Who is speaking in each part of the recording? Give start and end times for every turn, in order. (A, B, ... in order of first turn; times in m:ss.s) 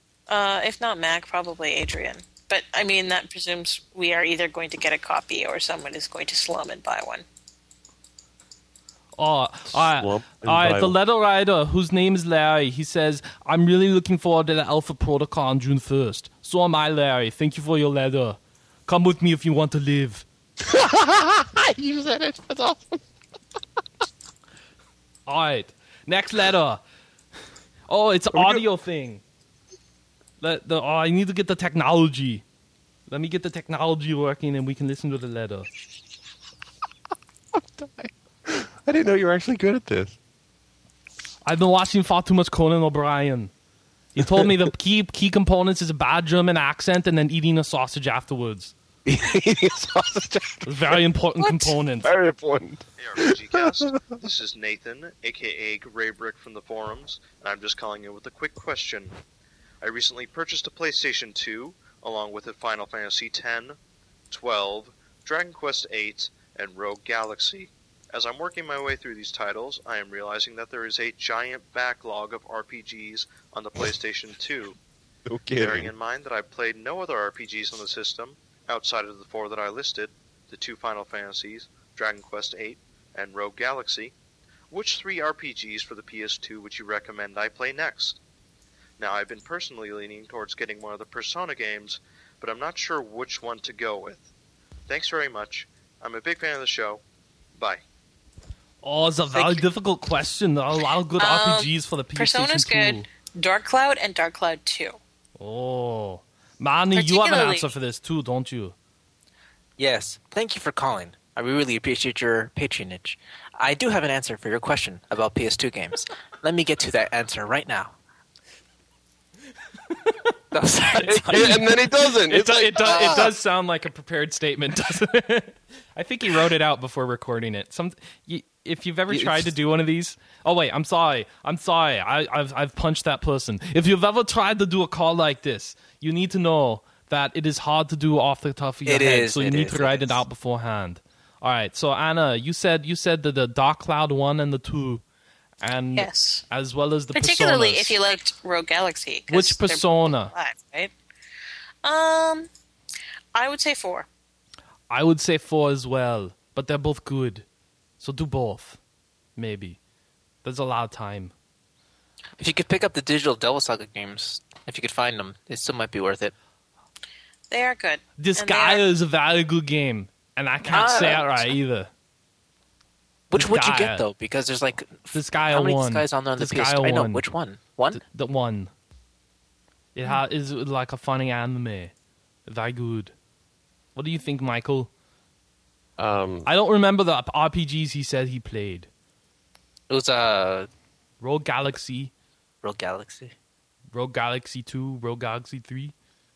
0:00.3-0:07.2 A
0:09.2-0:20.2 B
0:09.8-0:11.0 C
0:20.6-0:23.0 C
0:25.2-0:26.8 B
0:27.9-0:29.2 B
0:28.3-0:28.6 C
0:30.4-0:32.4 B
0:33.1-0:35.7 B
0:37.8-0:40.2 C
0:41.4-0:43.5 B
0:44.1-0:48.7 B
0:44.2-0:44.5 C
0:49.0-0:51.0 C
0:50.6-0:52.1 B
0:51.4-0:51.7 A
0:52.0-0:54.2 C
0:53.0-0:59.2 D
0:59.8-1:03.8 D
1:04.3-1:14.8 D
1:15.3-1:15.9 C
1:15.6-1:24.1 D
1:24.7-1:28.2 D
1:29.0-1:34.3 D
1:34.9-1:37.0 D
1:38.8-1:43.1 B
1:41.2-1:45.0 A
1:45.4-1:48.7 B
1:46.9-1:47.7 A
1:49.8-1:57.9 E
1:59.9-2:00.3 B
2:00.5-2:01.6 E
2:00.9-2:25.0 B
2:01.1-2:03.3 C
2:02.8-2:03.3 E
2:09.1-2:09.5 C
2:18.8-2:20.2 E
2:25.6-2:28.0 B
2:26.0-2:26.4 A
2:27.1-2:30.9 A
2:29.3-2:30.3 B
2:31.8-2:32.5 A
2:33.3-2:34.1 A
2:34.9-2:37.4 B
2:38.0-2:38.8 B
2:39.4-2:39.8 B
2:40.4-2:41.3 B
2:42.4-2:46.3 E
2:47.5-2:48.8 A
2:48.2-2:51.9 B
2:50.7-2:51.5 E
2:53.3-2:58.0 E
2:53.3-2:54.0 B
2:55.1-2:57.2 B
2:57.9-2:58.7 B
2:59.9-3:01.9 B
3:02.4-3:03.1 B
3:03.9-3:04.9 B
3:06.0-3:06.5 C
3:06.4-3:08.9 B
3:09.9-3:10.7 E
3:11.2-3:12.1 B
3:12.6-3:13.3 E
3:13.9-3:15.9 B